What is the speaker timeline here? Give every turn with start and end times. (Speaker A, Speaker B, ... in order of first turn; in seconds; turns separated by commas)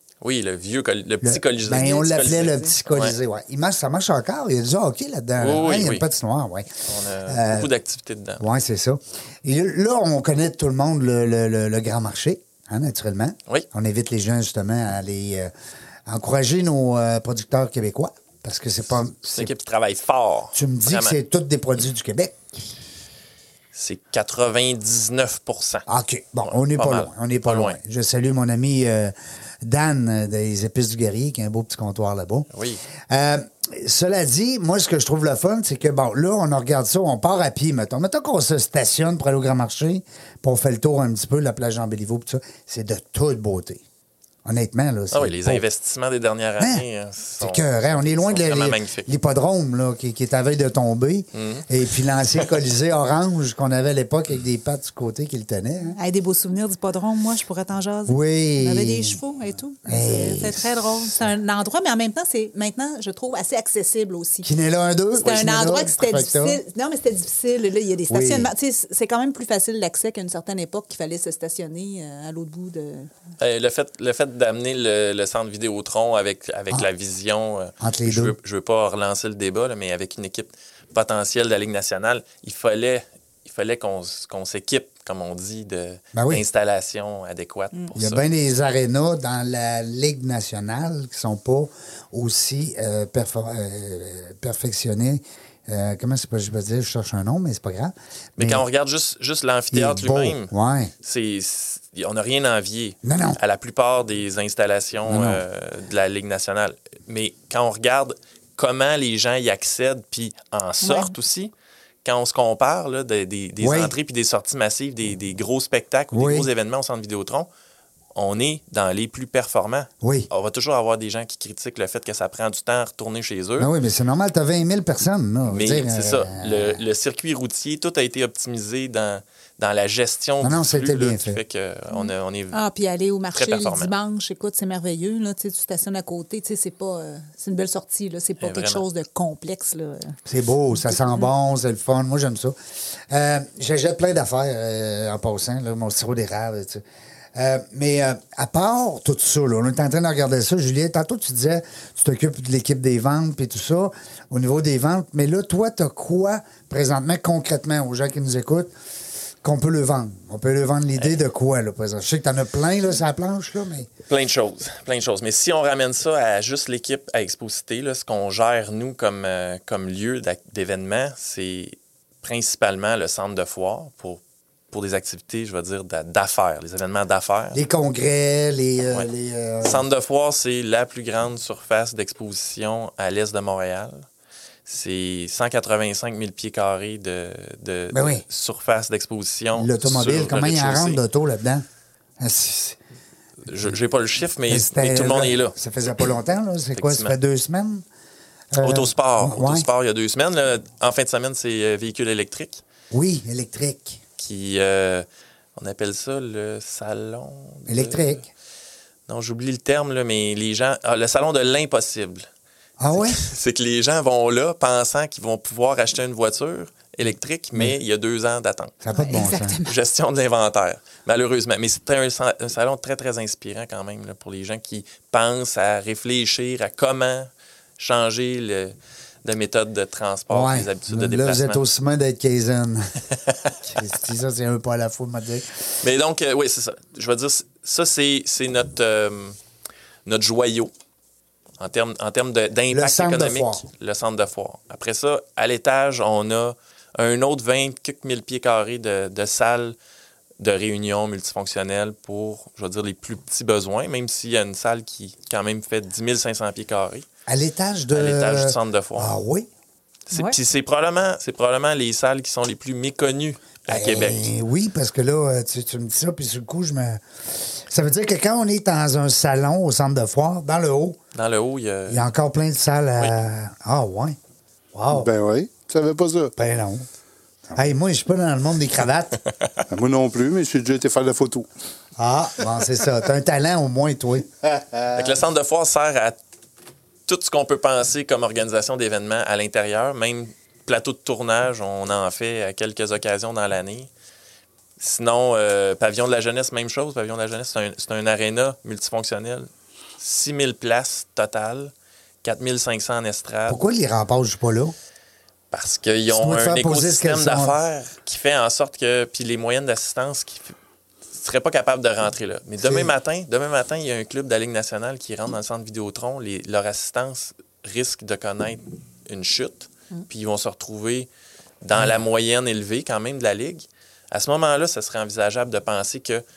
Speaker A: 0.2-3.1, Speaker B: 1.2-6.7, Speaker C: 2.0-2.7, Speaker A: 5.4-6.1, Speaker A: 6.9-8.4, Speaker B: 7.3-7.7, Speaker B: 8.4-15.5, Speaker B: 16.1-19.5, Speaker A: 19.3-21.2, Speaker B: 20.5-22.7, Speaker A: 23.7-25.9, Speaker B: 25.9-32.5, Speaker A: 26.4-27.8, Speaker A: 32.5-32.8, Speaker B: 33.1-43.8, Speaker B: 44.4-45.6, Speaker A: 45.1-49.1, Speaker B: 46.6-46.9, Speaker B: 47.4-56.0, Speaker A: 51.3-51.7, Speaker C: 55.9-64.5, Speaker B: 58.1-59.2, Speaker B: 59.9-61.2, Speaker B: 64.4-66.6, Speaker C: 65.2-73.1, Speaker B: 68.1-68.5, Speaker A: 73.4-88.2, Speaker B: 77.8-78.4, Speaker B: 86.1-86.4, Speaker B: 87.9-98.6, Speaker A: 98.4-100.5, Speaker B: 99.7-100.9, Speaker A: 101.0-111.5, Speaker B: 103.0-103.4, Speaker B: 105.1-105.4, Speaker C: 110.8-111.1, Speaker A: 112.0-117.5, Speaker B: 113.6-113.9, Speaker B: 116.1-116.5, Speaker A: 118.1-123.7, Speaker B: 120.0-120.3, Speaker B: 123.6-126.8, Speaker A: 125.5-132.6, Speaker B: 130.4-131.4, Speaker C: 131.9-140.2, Speaker A: 133.3-133.9, Speaker A: 138.4-138.8, Speaker B: 140.2-142.6, Speaker C: 140.9-141.3, Speaker B: 143.1-146.8, Speaker B: 147.3-158.7, Speaker B: 159.4-163.9, Speaker A: 164.1-177.6, Speaker B: 177.5-179.8, Speaker A: 179.6-184.1, Speaker A: 184.7-191.0, Speaker B: 187.9-188.2, Speaker B: 189.6-191.6, Speaker B: 192.2-192.8, Speaker A: 193.5-195.6, Speaker B: 194.5-197.8, Speaker A: 196.8-197.1, Speaker B: 198.5-199.7, Speaker A: 198.6-202.6, Speaker B: 202.9-204.0, Speaker A: 204.2-205.1, Speaker A: 205.6-208.2, Speaker B: 207.7-208.2, Speaker A: 209.1-212.3, Speaker B: 212.8-213.2, Speaker A: 212.9-218.8, Speaker B: 218.8-219.6, Speaker C: 218.9-219.7, Speaker A: 219.6-231.6, Speaker B: 230.3-232.9, Speaker B: 233.7-235.5, Speaker A: 235.8-239.4, Speaker A: 240.1-240.7, Speaker A: 241.6-249.7, Speaker B: 242.7-243.7, Speaker A: 250.4-257.1, Speaker B: 257.3-259.5, Speaker A: 257.9-259.1, Speaker A: 260.1-264.3, Speaker B: 263.7-271.0, Speaker A: 271.1-272.1, Speaker B: 271.9-274.2, Speaker B: 274.7-275.1, Speaker D: 274.9-276.3, Speaker B: 276.4-276.9, Speaker B: 277.5-279.2, Speaker D: 279.7-281.5, Speaker B: 282.0-284.3, Speaker A: 284.9-286.1, Speaker A: 287.1-293.9, Speaker A: 294.8-301.7, Speaker A: 302.2-303.6, Speaker B: 303.5-304.7, Speaker A: 305.5-310.6, Speaker B: 306.1-307.5, Speaker A: 311.1-321.1, Speaker B: 312.6-312.9, Speaker A: 321.6-326.2